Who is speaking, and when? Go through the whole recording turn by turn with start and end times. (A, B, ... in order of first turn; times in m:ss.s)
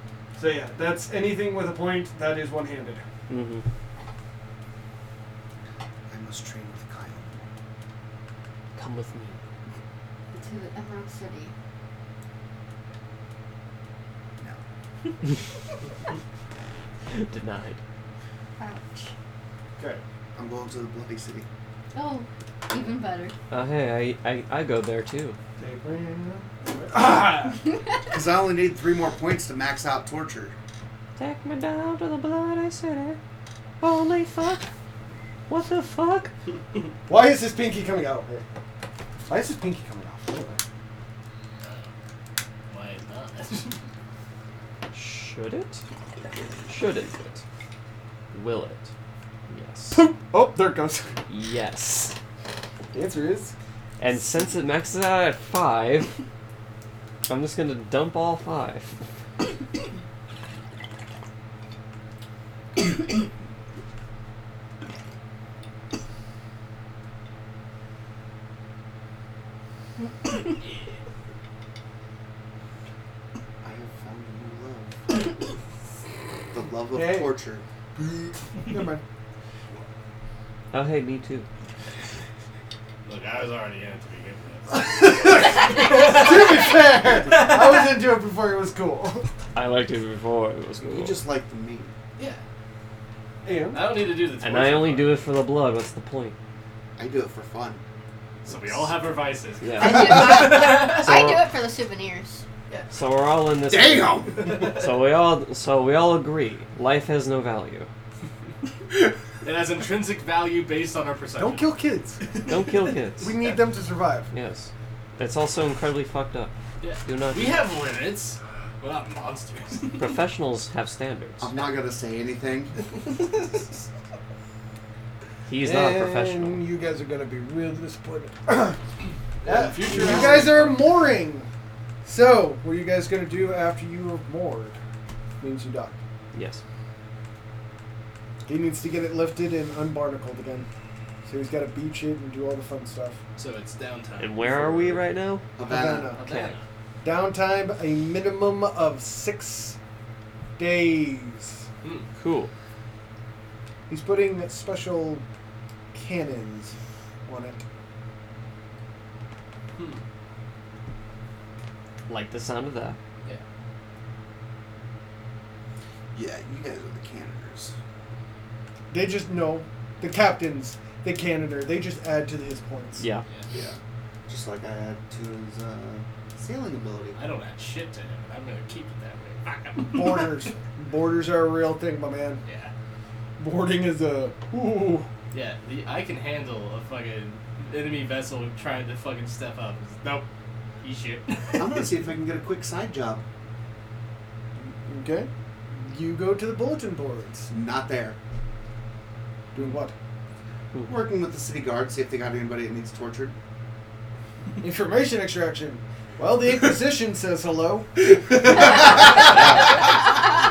0:00.4-0:03.0 A
0:03.3-0:03.6 B
0:06.1-0:07.5 C
0:08.8-0:09.4 B
0:10.3-0:11.5 D
0:17.1-0:17.8 B
0:18.6-0:19.1 D
0:20.4-0:21.5 C
0:21.9-0:23.4 D
0:23.5-0:25.4 B
0:25.6-0:27.6 A
0:28.1-0:30.6 C
0:31.2-0:33.2 B
0:33.8-0:34.7 B
0:35.5-0:36.3 B
0:37.1-0:38.4 A
0:39.3-0:40.6 A
0:41.6-0:41.9 E
0:42.7-0:43.8 E
0:44.9-0:45.8 B
0:46.7-0:47.4 B
0:48.3-0:48.9 B
0:49.5-0:50.1 B
0:49.9-0:51.2 A
0:51.3-0:52.2 B
0:52.9-0:53.5 A
0:54.0-0:56.2 B
0:57.3-0:59.0 B
1:13.6-1:15.4 C
1:16.5-1:18.3 C
1:16.9-1:17.3 A
1:18.7-1:19.0 A
1:20.7-1:21.4 B
1:23.0-1:27.8 E
1:24.7-1:29.3 A
1:29.5-1:31.2 B
1:30.8-1:31.9 C
1:32.2-1:32.4 E
1:33.4-1:34.0 A
1:33.7-1:35.2 E
1:34.4-1:36.3 B
1:37.0-1:37.8 C
1:38.4-1:41.1 E
1:38.5-1:38.9 C
1:39.6-1:41.4 B
1:39.8-1:42.4 D
1:39.8-1:40.6 C
1:42.9-1:47.9 B
1:43.7-1:44.6 C
1:44.3-1:44.8 E
1:49.4-1:51.7 E
1:51.4-1:52.2 A
1:52.2-1:53.0 E
1:52.4-1:53.4 B
1:53.2-1:54.3 A
1:54.3-1:57.6 B
1:56.8-2:00.1 E
1:59.9-2:01.5 B
2:01.4-2:02.8 C
2:03.0-2:03.6 E
2:05.5-2:06.6 B
2:05.6-2:08.8 A
2:09.4-2:10.9 E
2:09.4-2:11.5 A
2:12.0-2:14.8 A
2:15.4-2:16.0 A
2:16.3-2:16.6 B
2:18.5-2:20.7 A
2:21.3-2:23.2 A
2:23.4-2:25.0 E
2:24.2-2:25.5 B
2:25.6-2:26.1 C
2:25.6-2:26.2 A
2:26.2-2:26.6 E
2:26.2-2:26.6 B
2:27.0-2:29.8 A
2:30.6-2:31.7 A
2:31.8-2:32.1 E
2:32.2-2:32.5 B
2:33.9-2:35.2 A
2:35.9-2:37.6 A
2:39.8-2:40.0 E
2:42.1-2:43.0 B
2:46.2-2:47.8 C
2:48.9-2:53.0 A
2:53.0-2:53.2 B
2:53.5-2:57.2 C
2:57.2-3:00.5 E
2:59.9-3:02.4 A
3:02.4-3:02.7 E
3:03.4-3:05.1 A
3:05.3-3:10.3 E
3:10.8-3:11.9 E
3:11.6-3:13.2 C
3:14.6-3:17.5 A
3:17.5-3:18.2 C
3:19.6-3:19.9 A
3:20.8-3:23.4 C
3:24.6-3:29.2 A
3:28.2-3:29.6 C
3:29.1-3:29.7 E